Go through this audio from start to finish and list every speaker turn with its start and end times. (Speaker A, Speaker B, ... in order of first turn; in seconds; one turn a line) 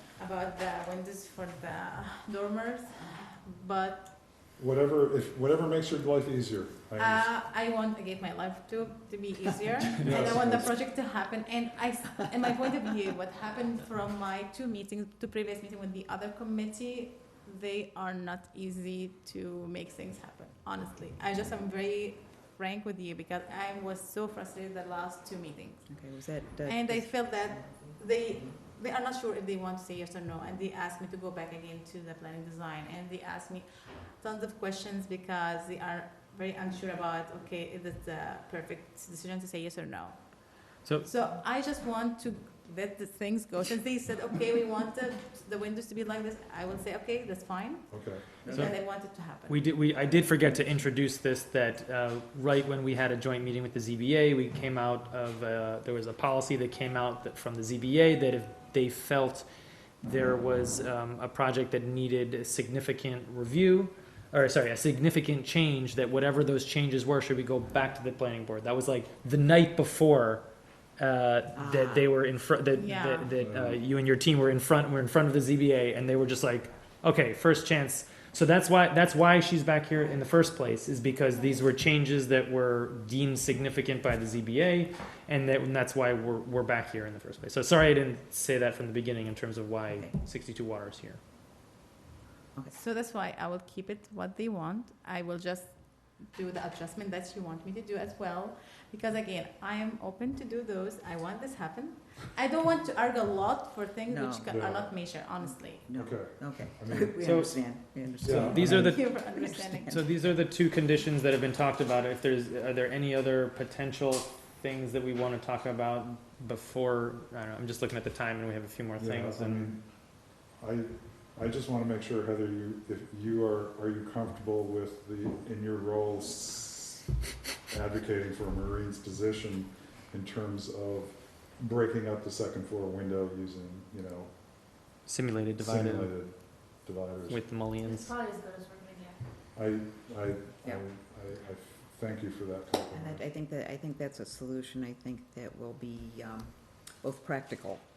Speaker A: 0.2-4.1
Speaker B: 4.3-7.4
Speaker A: 7.0-25.9
Speaker C: 9.9-10.4
Speaker B: 10.0-10.8
Speaker D: 25.9-28.0
Speaker A: 26.7-40.5
Speaker C: 40.8-41.1
Speaker A: 41.0-49.6
Speaker B: 47.9-48.5
Speaker D: 48.4-48.7
Speaker C: 48.5-59.5
Speaker C: 60.0-70.4
Speaker C: 71.0-91.2
Speaker D: 71.5-72.1
Speaker A: 72.8-73.3
Speaker B: 73.3-73.8
Speaker D: 80.0-80.2
Speaker A: 92.8-105.9
Speaker D: 104.1-104.5
Speaker B: 104.5-105.2
Speaker D: 105.4-110.1
Speaker B: 105.9-107.2
Speaker C: 107.2-109.1
Speaker B: 108.2-108.9
Speaker A: 108.9-109.9
Speaker C: 109.9-119.7
Speaker B: 119.0-127.1
Speaker B: 127.7-134.4
Speaker C: 135.1-136.1
Speaker B: 135.6-137.9
Speaker C: 137.3-138.1
Speaker A: 137.8-139.2
Speaker B: 139.6-143.2
Speaker D: 142.9-147.8